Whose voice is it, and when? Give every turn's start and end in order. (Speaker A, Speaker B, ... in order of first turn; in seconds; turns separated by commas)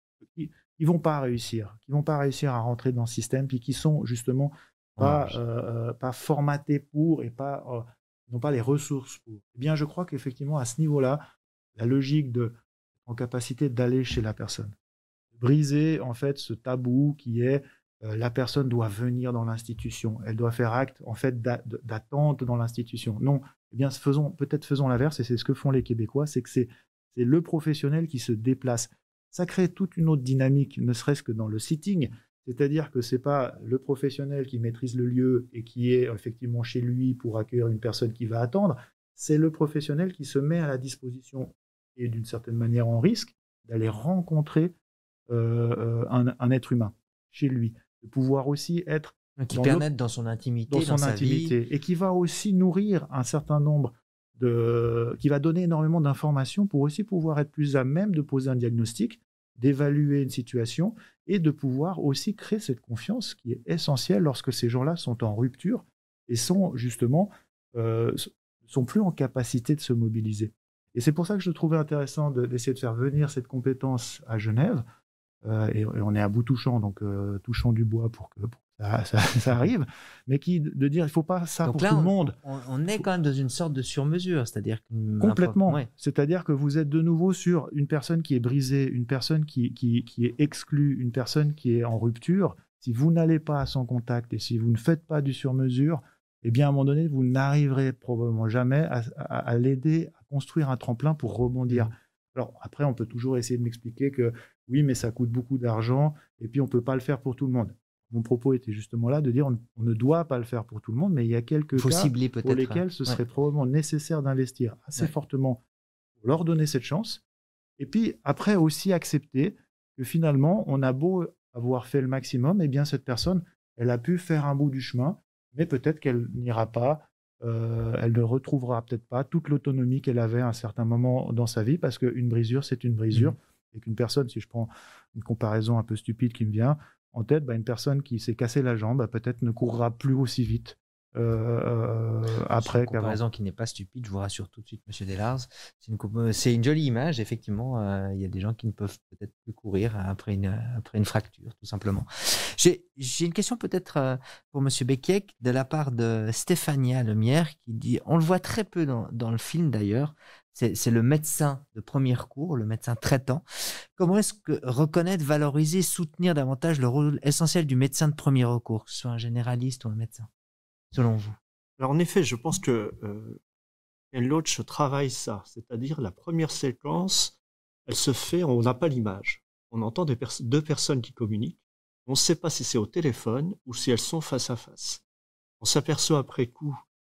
Speaker A: 0.3-11.2, Speaker B: 5.0-5.4, Speaker A: 11.8-14.7, Speaker A: 15.4-44.7, Speaker A: 45.3-49.9, Speaker B: 49.4-51.5, Speaker A: 50.7-74.8, Speaker A: 75.4-82.3, Speaker B: 81.6-85.9, Speaker A: 85.2-115.6, Speaker B: 111.8-113.2, Speaker A: 116.2-117.2, Speaker A: 117.8-143.2, Speaker B: 142.5-163.4, Speaker B: 163.9-170.3, Speaker B: 170.9-171.3, Speaker C: 171.8-173.4, Speaker C: 174.1-177.3, Speaker C: 177.9-185.0, Speaker C: 185.6-186.8